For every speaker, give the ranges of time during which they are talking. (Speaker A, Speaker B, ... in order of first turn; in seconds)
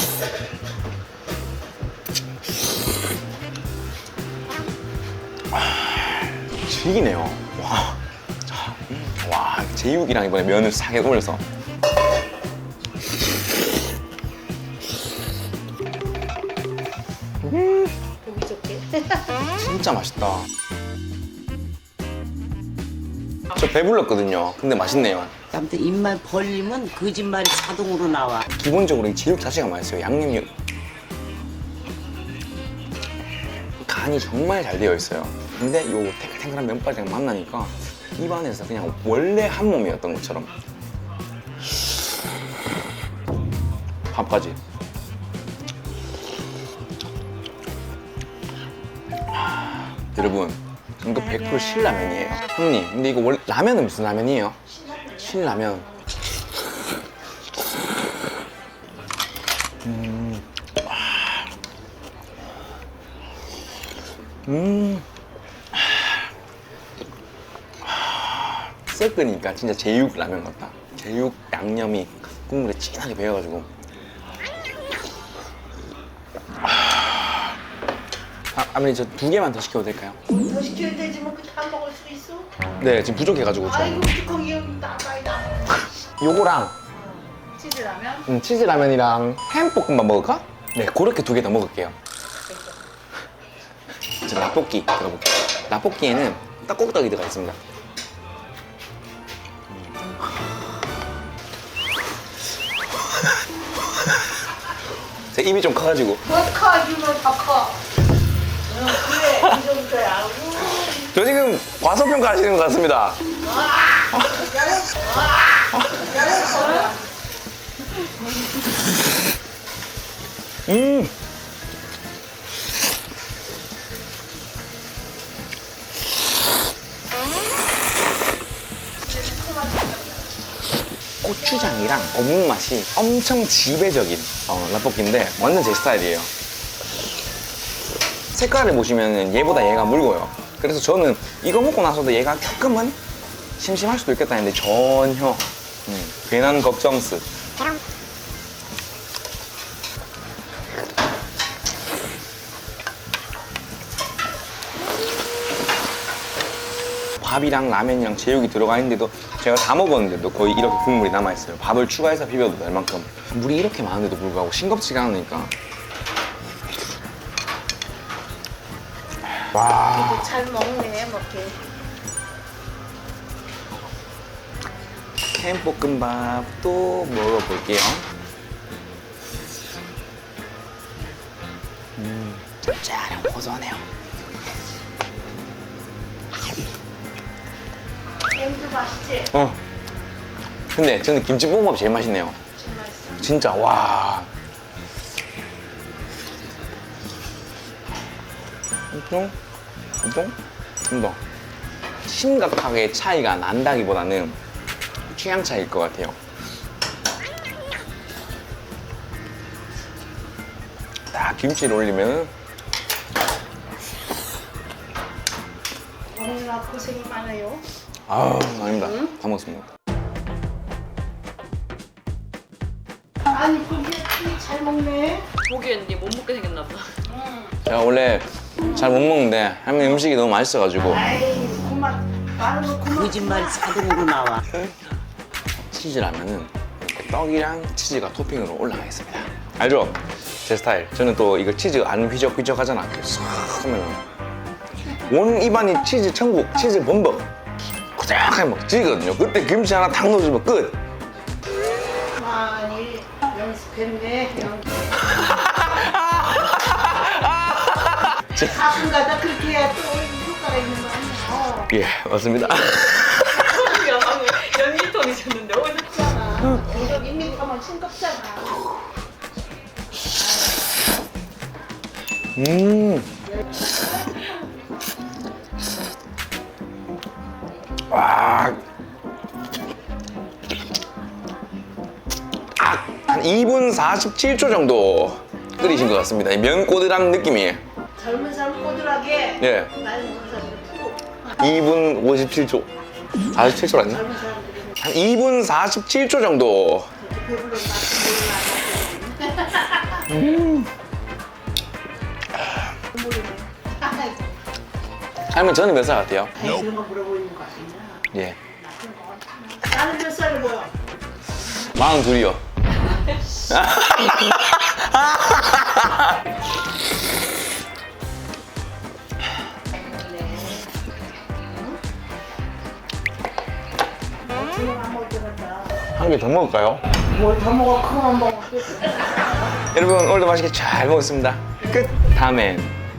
Speaker A: 5.5-11.4, 17.4-17.9, 19.5-20.5, 23.5-25.3, 28.5-30.5, 33.8-40.5, 44.1-44.6, 49.5-55.9, 59.8-61.5, 64.5-65.0, 65.7-66.1, 67.8-73.7, 76.6-77.5, 78.5-80.2, 82.8-84.1, 86.2-86.7, 88.3-91.9, 94.2-97.6, 105.3-106.2, 110.9-113.2, 120.7-121.1, 131.2-136.3, 138.3-143.0, 143.6-147.2, 157.2-165.5, 169.5-170.3, 175.3-178.1, 182.0-183.8, 189.3-189.6, 190.7-192.4, 193.2-194.3, 198.9-199.3, 200.0-201.2, 202.0-204.4, 205.1-206.2, 211.1-212.3, 218.1-219.7, 227.6-231.1, 235.7-244.0, 245.0-247.3, 247.9-250.8, 255.1-258.6, 261.7-263.7, 272.4-273.1, 277.9-278.6, 282.6-287.6, 289.4-289.7, 291.4-292.7, 293.3-294.0, 294.8-296.9, 300.1-300.7, 305.3-306.4, 308.1-308.4, 311.7-312.4, 313.5-316.2, 325.9-326.8, 329.7-332.8
Speaker B: 18.2-19.2, 54.9-55.2, 80.3-82.5, 83.6-85.8, 87.0-88.3, 92.3-92.8, 106.3-107.8, 108.7-111.0, 113.4-117.0, 129.0-130.2, 169.9-171.6, 188.3-189.3, 192.5-193.2, 216.1-217.6, 223.3-225.3, 230.9-234.0, 252.2-255.0, 258.3-261.7, 265.9-268.6, 288.0-291.3, 293.8-294.8, 297.0-300.1, 302.9-304.3, 306.4-310.7, 324.2-325.8, 327.1-328.9, 331.6-332.2
Speaker C: 25.5-28.4, 232.8-234.4
Speaker D: 225.4-226.9, 263.1-265.9